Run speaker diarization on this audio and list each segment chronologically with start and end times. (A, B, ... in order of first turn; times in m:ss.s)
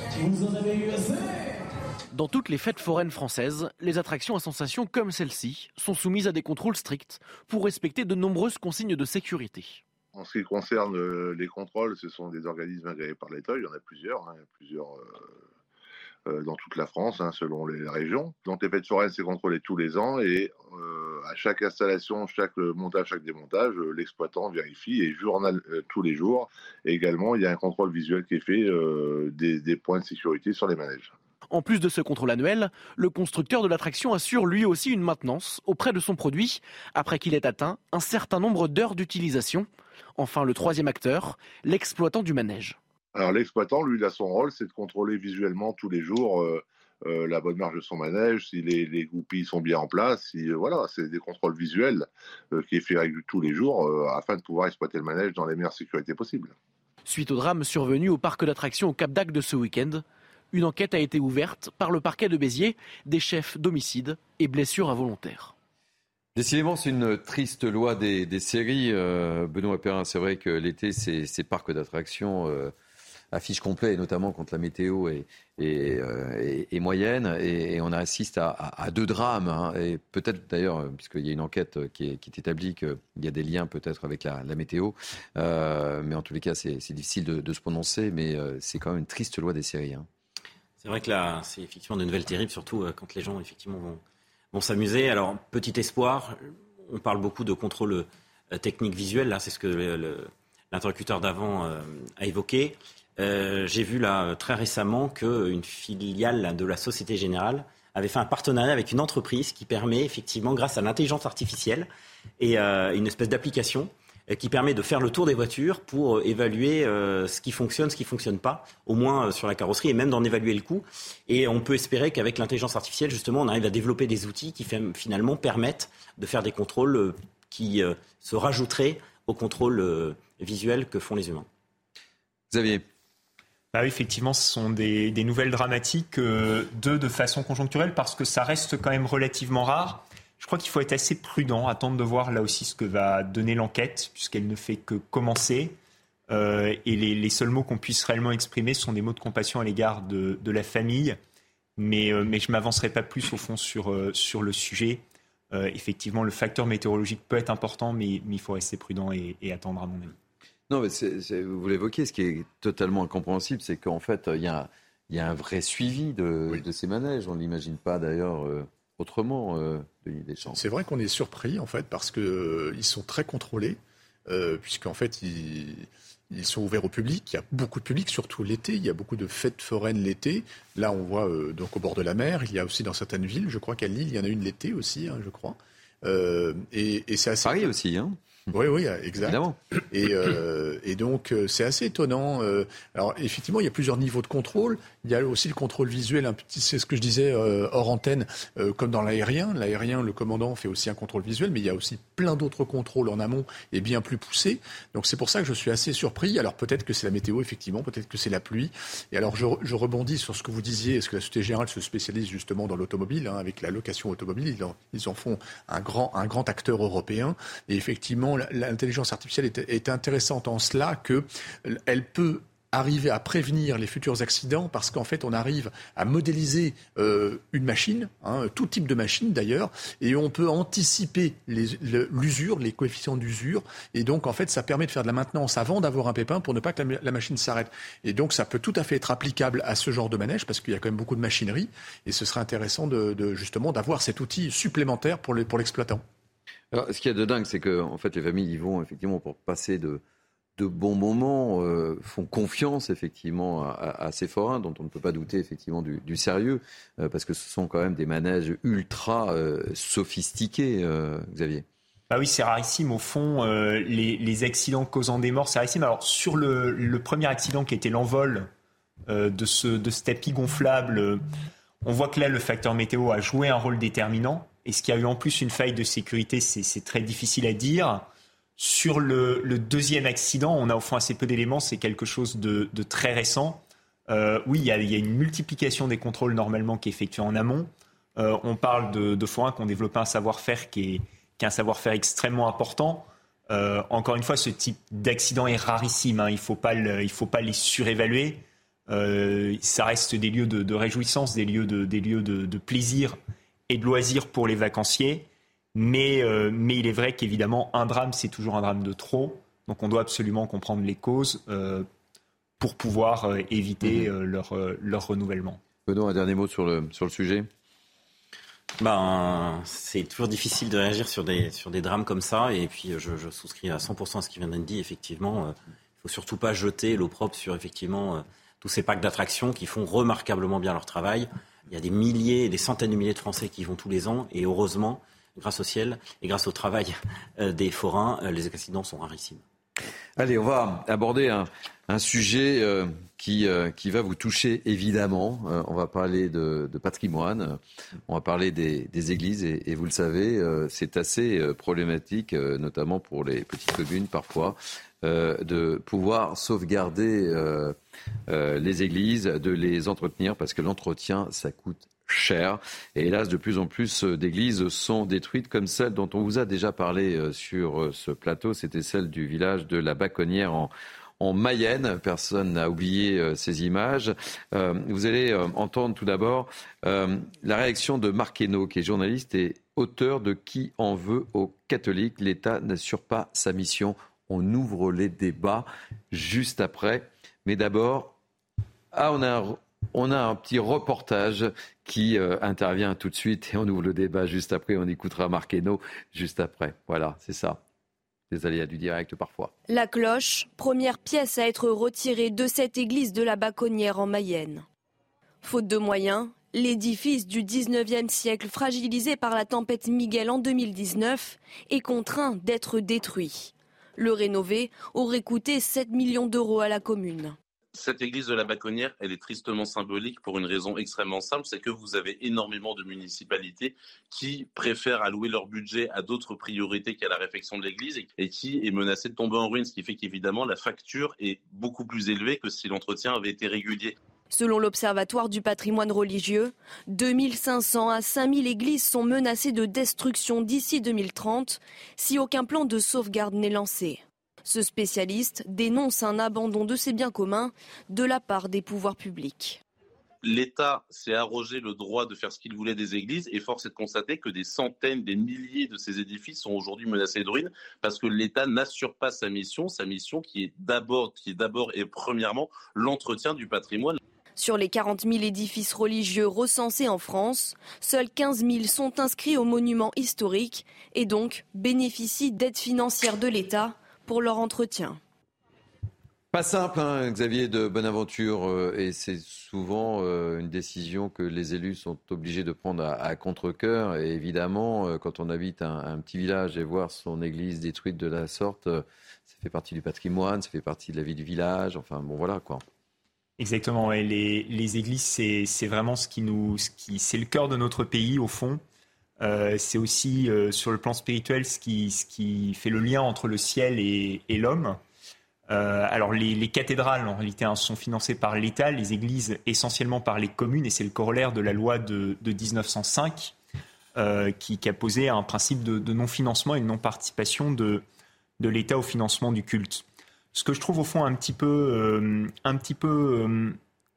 0:02.1-0:09.8 A
0:10.1-0:15.4 B
0:16.3-0:31.1 B
0:31.5-0:42.8 A
0:43.1-0:56.5 B
0:57.0-1:05.5 A
1:06.4-1:12.7 C
1:13.3-1:30.1 C
1:30.8-1:34.0 D
1:34.5-1:51.9 D
1:52.4-2:11.5 D
2:12.5-2:12.8 C
2:13.7-2:25.8 E
2:26.3-2:31.2 E
2:31.8-2:40.1 E
2:40.7-2:50.6 C
2:50.5-3:07.7 F
3:07.4-3:08.2 C
3:08.5-3:09.4 F
3:09.2-3:09.6 C
3:09.9-4:06.0 F
4:06.7-4:10.0 C
4:10.6-4:21.6 C
4:22.1-4:28.5 E
4:29.1-4:31.2 E
4:31.8-5:03.2 E
5:03.7-5:11.9 E
5:12.6-5:15.6 E
5:15.8-5:17.5 C
5:18.8-5:39.4 D
5:40.2-5:57.7 C
5:58.3-6:28.1 C
6:28.9-6:37.6 C
6:38.3-6:39.5 C
6:39.7-6:44.6 G
6:45.4-6:57.3 G
6:57.7-7:13.9 H
7:14.3-7:29.6 G
7:30.2-7:44.0 H
7:44.4-7:55.0 G
7:56.3-8:12.6 C
8:13.4-8:18.6 E
8:19.2-8:24.8 E
8:25.5-8:33.3 E
8:34.0-8:37.8 E
8:38.4-8:43.6 E